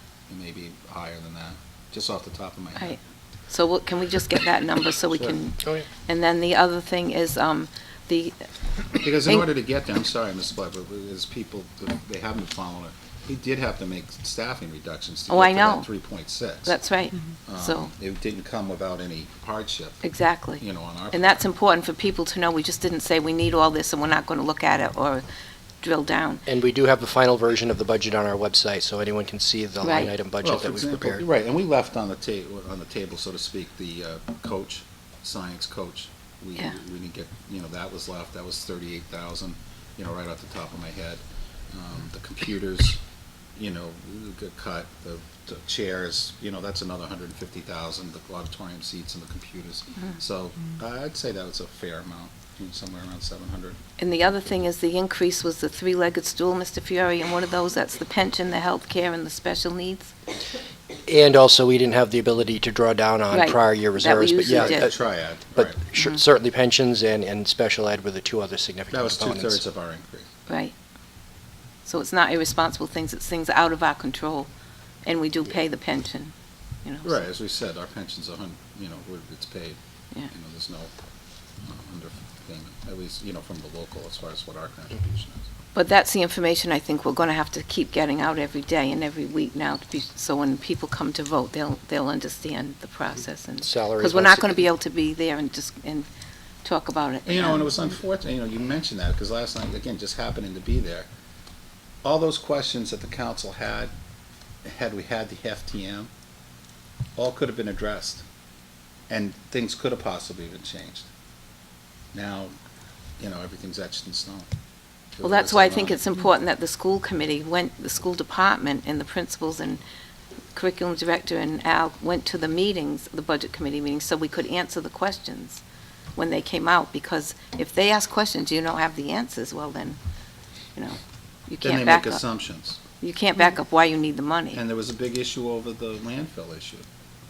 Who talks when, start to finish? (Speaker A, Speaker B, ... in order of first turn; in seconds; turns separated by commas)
Speaker A: 0.3-3.0, Speaker B: 2.8-8.4, Speaker A: 5.1-5.4, Speaker A: 9.0-16.8, Speaker B: 15.3-15.9, Speaker B: 16.6-17.9, Speaker A: 17.5-21.4, Speaker B: 20.0-25.2, Speaker B: 25.8-26.4, Speaker C: 26.5-31.2, Speaker B: 29.8-30.1, Speaker A: 30.4-43.0, Speaker A: 43.5-53.8, Speaker B: 54.0-60.1, Speaker C: 61.0-64.9, Speaker B: 63.3-64.9, Speaker A: 64.5-65.8, Speaker C: 65.5-69.6, Speaker A: 68.9-70.3, Speaker B: 70.5-70.7, Speaker B: 71.8-74.5, Speaker B: 75.0-76.3, Speaker B: 76.8-77.2, Speaker A: 77.0-80.9, Speaker A: 81.6-85.4, Speaker B: 85.7-96.1, Speaker C: 93.6-94.6, Speaker B: 96.6-97.8, Speaker A: 97.2-101.1, Speaker A: 102.0-103.9, Speaker A: 104.6-106.1, Speaker A: 107.2-108.2, Speaker A: 109.1-111.1, Speaker A: 112.1-112.5, Speaker A: 113.2-114.5, Speaker A: 115.2-116.0, Speaker B: 115.2-119.8, Speaker B: 120.5-125.6, Speaker B: 126.2-130.0, Speaker B: 130.7-132.2, Speaker A: 131.6-132.8, Speaker B: 133.0-134.6, Speaker A: 134.5-136.8